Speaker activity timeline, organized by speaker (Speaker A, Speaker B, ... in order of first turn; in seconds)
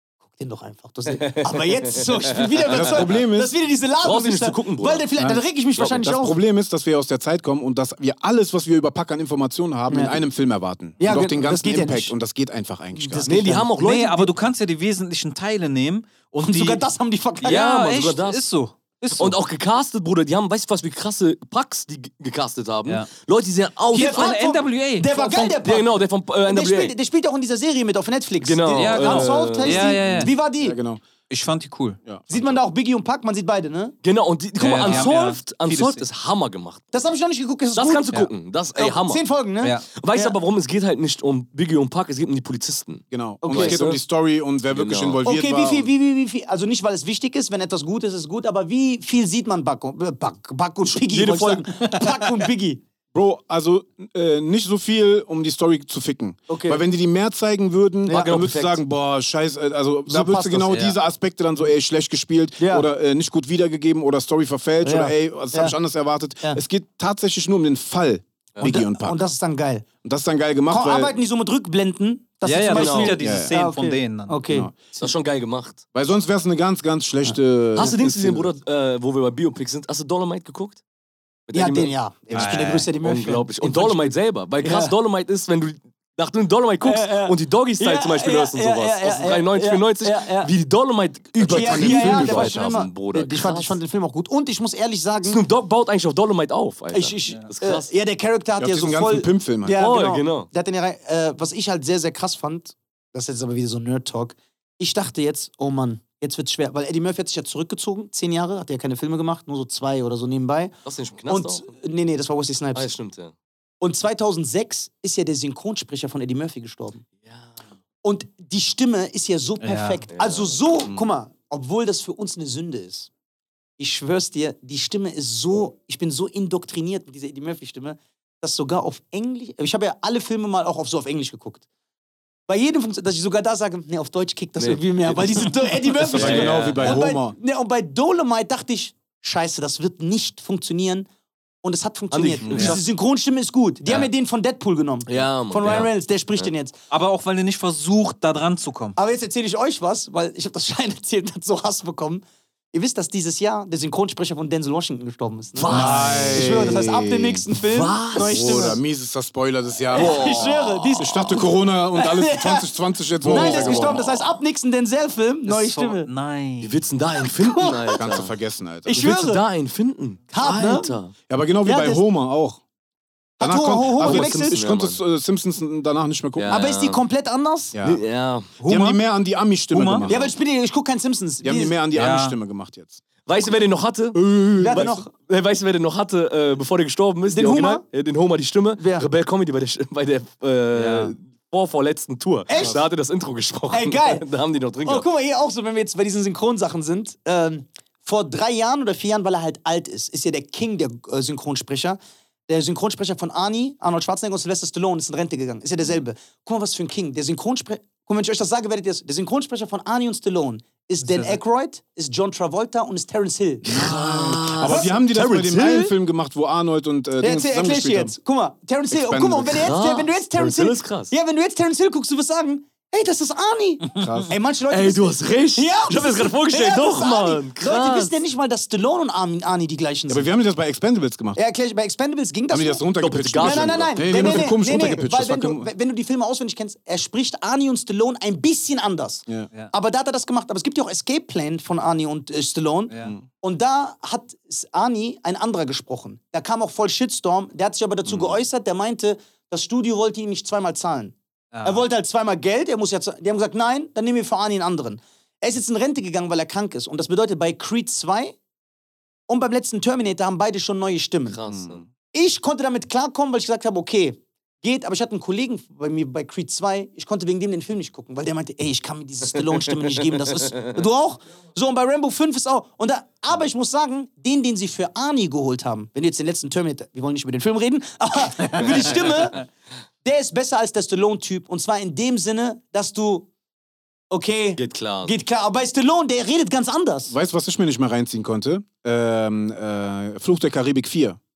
Speaker A: 0.3-6.4, 9.9-10.2, 11.0-12.2, 12.9-13.7, 16.4-17.7, 23.9-30.8, 32.3-34.0, 36.9-38.1, 38.8-40.4, 43.4-43.8, 45.2-52.8, 56.5-56.8, 58.1-58.4, 60.1-60.8, 62.6-62.9, 64.8-65.8, 68.6-69.9, 70.7-74.7, 81.5-85.0, 86.8-90.5, 91.4-95.4, 96.9-110.7, 111.3-112.9, 113.8-117.0, 118.0-123.1, 123.8-131.6, 132.5-141.1, 141.6-146.8, 149.0-158.8, 159.9-162.7, 163.2-166.1, 167.3-168.0, 168.9-169.4, 170.3-170.9, 171.6-172.0, 173.4-174.6, 176.5-177.8, 180.1-181.8, 184.6-185.1, 187.3-187.8, 188.8-189.1, 192.5-192.8, 193.7-194.3, 194.8-213.9, 214.6-215.0, 217.2-230.3, 231.3-232.8, 233.4-258.4, 259.3-261.4, 262.1-279.5, 280.0-283.3, 284.1-287.1
Speaker B: 1.1-3.0, 4.0-5.1, 13.2-14.3, 17.4-18.4, 19.1-24.3, 25.2-26.9, 28.4-30.0, 34.0-36.9, 37.7-39.2, 39.9-44.0, 44.7-45.2, 51.0-52.0, 58.1-58.8, 72.7-73.2, 75.0-75.8, 77.8-80.8, 81.5-93.8, 95.2-97.9, 99.8-100.5, 110.8-111.7, 112.7-113.3, 117.2-117.6, 120.1-120.6, 134.6-137.0, 142.1-142.8, 145.1-146.5, 155.6-156.3, 157.6-158.8, 159.9-161.1, 163.2-164.3, 166.6-168.3, 168.9-171.1, 174.0-175.0, 176.4-177.0, 177.8-178.5, 183.3-195.1, 213.7-215.9, 219.5-221.1, 224.7-228.2, 233.0-234.6, 261.3-261.8, 270.4-270.7, 284.6-285.2
Speaker C: 2.6-3.5, 5.2-13.4, 30.1-31.0, 32.0-32.5, 43.1-45.9, 53.1-69.2, 70.0-71.2, 73.2-73.5, 74.5-74.7, 75.9-78.5, 91.4-92.8, 98.6-99.8, 136.0-137.4, 142.5-142.8, 155.7-157.4, 158.2-160.4, 161.0-164.1, 167.9-169.1, 171.3-172.6, 173.4-176.6, 177.7-178.0, 178.6-180.3, 181.4-183.0, 184.2-184.9, 213.9-218.2, 218.9-219.8, 224.0-224.3, 230.1-231.4, 232.5-235.7, 248.1-248.4, 261.5-261.9, 287.1-291.2
Speaker D: 13.8-16.8, 17.4-19.4, 23.9-25.5, 28.8-30.3, 31.3-32.0, 34.6-36.0, 60.7-61.0, 72.5-74.4, 82.3-82.9, 119.6-120.0, 142.5-142.8, 146.9-149.0, 155.7-156.6, 165.5-166.8, 178.6-179.0, 179.7-180.1, 181.9-182.4, 190.7-191.1, 211.0-211.4, 251.5-251.9